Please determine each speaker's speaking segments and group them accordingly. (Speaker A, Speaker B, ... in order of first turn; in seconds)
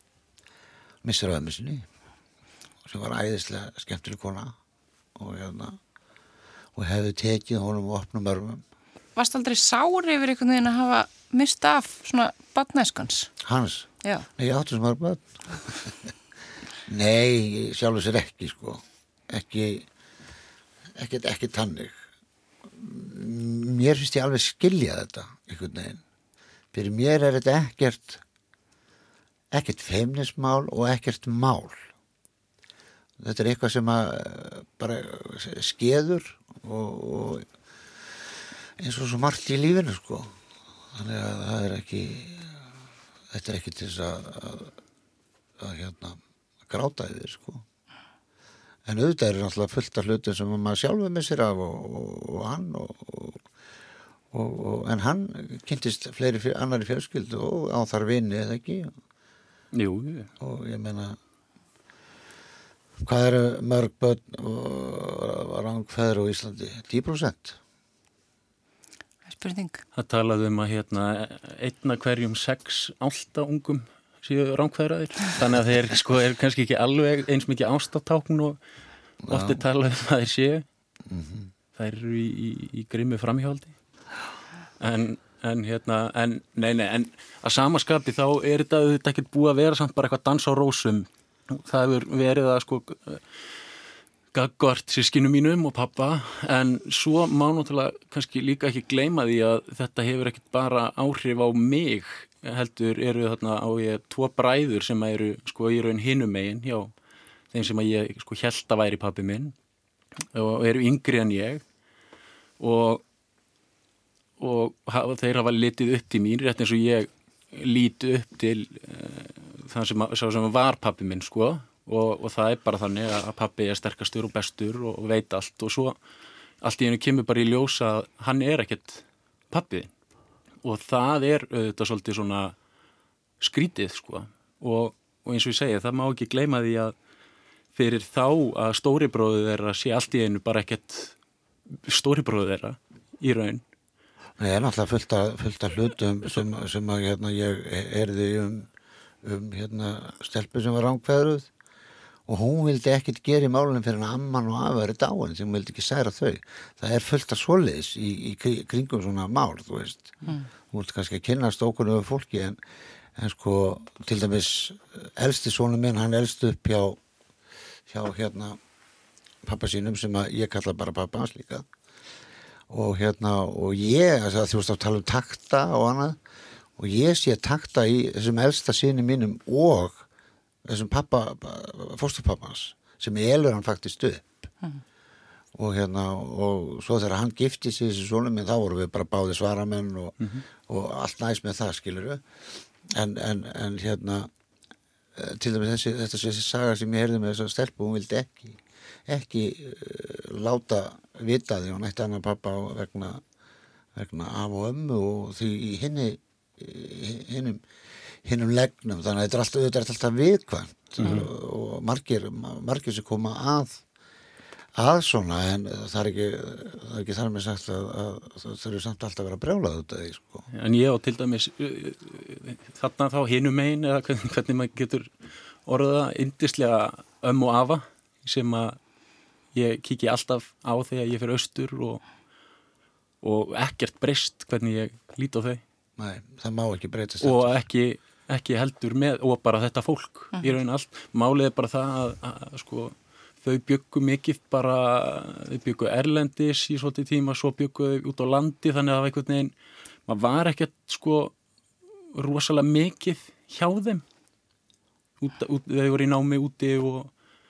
Speaker A: 1.0-1.8, 2.8-4.5, 5.2-5.8, 6.7-8.6, 13.4-16.1, 16.9-19.9, 20.9-22.0, 22.7-26.0, 26.7-28.2, 29.5-31.9, 33.2-37.5, 38.8-40.3, 40.9-42.6, 43.3-44.7, 45.6-47.6, 48.9-53.4, 54.3-58.9, 60.4-61.2, 63.0-67.6, 79.2-79.6, 81.1-81.5, 144.4-148.7, 149.2-151.5, 152.3-162.6, 163.2-167.0, 167.9-168.6, 169.4-171.6, 172.7-176.2, 176.8-180.1, 180.7-184.5, 185.6-192.2, 192.9-194.3, 195.2-203.2, 203.9-207.6, 208.2-213.8, 214.8-220.5, 236.0-237.6
Speaker B: 9.2-13.3, 69.3-69.8
Speaker C: 59.7-60.3, 69.9-78.6, 79.3-80.6, 81.8-83.7, 84.8-93.2, 94.3-106.9, 107.5-109.5, 110.3-111.6, 112.6-113.0, 114.4-126.0, 126.6-129.9, 130.6-132.6, 133.4-136.9, 137.7-141.1, 141.7-143.6, 211.0-211.3, 220.5-228.8, 229.5-232.0, 233.2-235.6, 237.2-249.5, 250.1-251.3, 252.1-254.0, 255.2-257.1